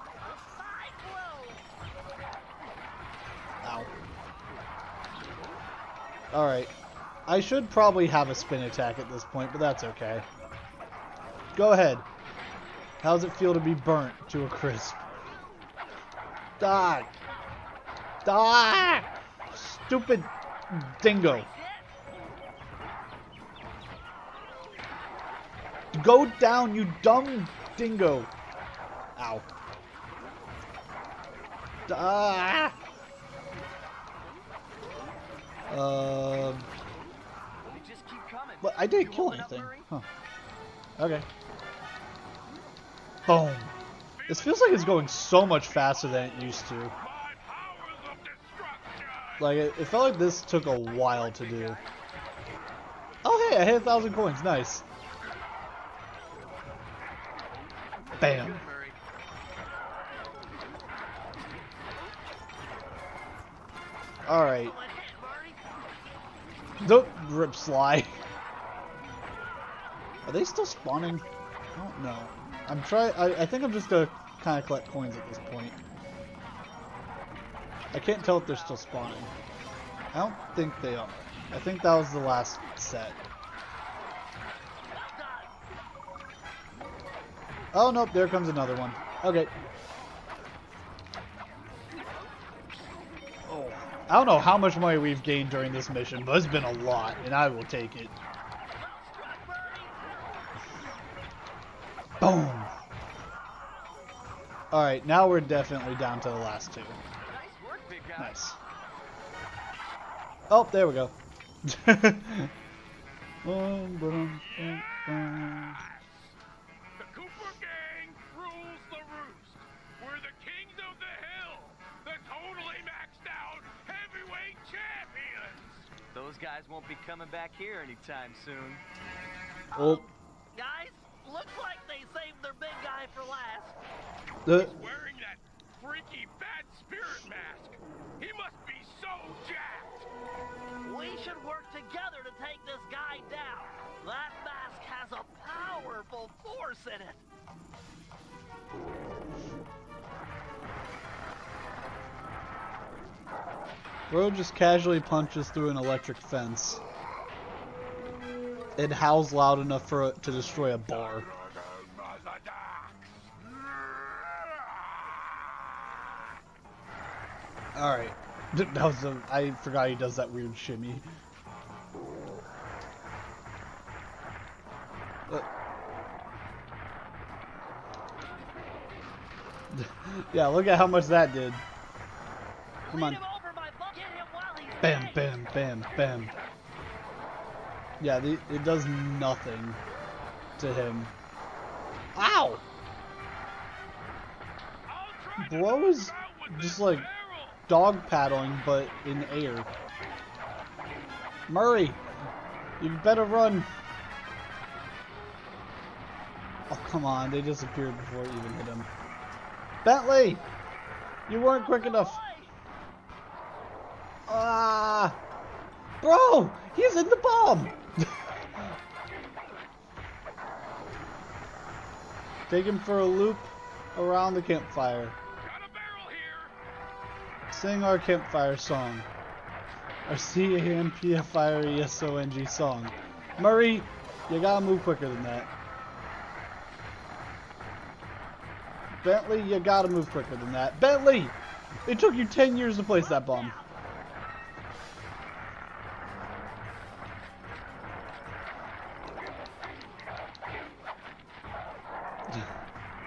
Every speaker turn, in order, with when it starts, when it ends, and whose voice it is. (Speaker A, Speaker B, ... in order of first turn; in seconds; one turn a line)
Speaker A: 0.5-1.6
Speaker B: 3.6-3.9
Speaker B: 6.3-6.7
Speaker B: 7.3-10.2
Speaker B: 11.5-12.1
Speaker B: 13.0-15.1
Speaker B: 16.6-17.1
Speaker B: 18.2-21.5
Speaker A: 21.2-22.0
Speaker B: 25.9-28.3
Speaker B: 29.1-29.4
Speaker B: 31.9-32.8
Speaker B: 35.7-36.7
Speaker C: 37.6-39.9
Speaker B: 38.6-40.0
Speaker B: 41.0-41.3
Speaker B: 43.2-43.7
Speaker D: 44.1-46.4
Speaker B: 44.3-46.9
Speaker D: 46.9-49.5
Speaker B: 49.4-51.8
Speaker B: 53.2-54.8
Speaker B: 58.2-58.6
Speaker B: 64.2-64.7
Speaker A: 64.3-65.6
Speaker B: 66.8-68.1
Speaker B: 70.2-75.8
Speaker B: 77.9-79.3
Speaker A: 78.0-79.0
Speaker B: 80.1-83.2
Speaker A: 84.9-85.5
Speaker B: 87.7-89.5
Speaker B: 93.5-98.1
Speaker A: 98.8-100.6
Speaker B: 102.2-102.7
Speaker B: 104.7-107.0
Speaker C: 107.2-108.5
Speaker B: 108.2-108.6
Speaker B: 110.5-112.5
Speaker B: 113.4-115.8
Speaker D: 114.4-116.3
Speaker D: 117.0-125.9
Speaker C: 126.1-128.8
Speaker A: 129.7-133.8
Speaker B: 129.7-130.0
Speaker B: 134.4-134.7
Speaker D: 134.5-140.1
Speaker A: 140.8-147.2
Speaker B: 154.1-156.8
Speaker B: 158.8-161.3
Speaker D: 160.9-163.2
Speaker B: 167.7-171.1
Speaker B: 179.7-181.6
Speaker A: 182.8-185.4
Speaker B: 182.9-183.2
Speaker B: 184.8-186.3
Speaker D: 186.0-186.4
Speaker B: 188.0-189.8
Speaker B: 190.6-191.1
Speaker B: 192.1-192.6
Speaker D: 194.9-197.6
Speaker B: 195.4-197.1
Speaker B: 197.7-199.7
Speaker B: 201.5-202.0
Speaker B: 202.8-203.7
Speaker B: 206.7-208.9
Speaker B: 209.8-210.4
Speaker B: 211.3-212.2
Speaker A: 211.4-212.5
Speaker B: 214.3-215.2
Speaker B: 216.0-218.3
Speaker B: 222.5-225.2
Speaker D: 225.4-226.5
Speaker B: 227.5-229.1
Speaker B: 230.1-235.5
Speaker B: 239.0-243.6
Speaker A: 242.9-243.8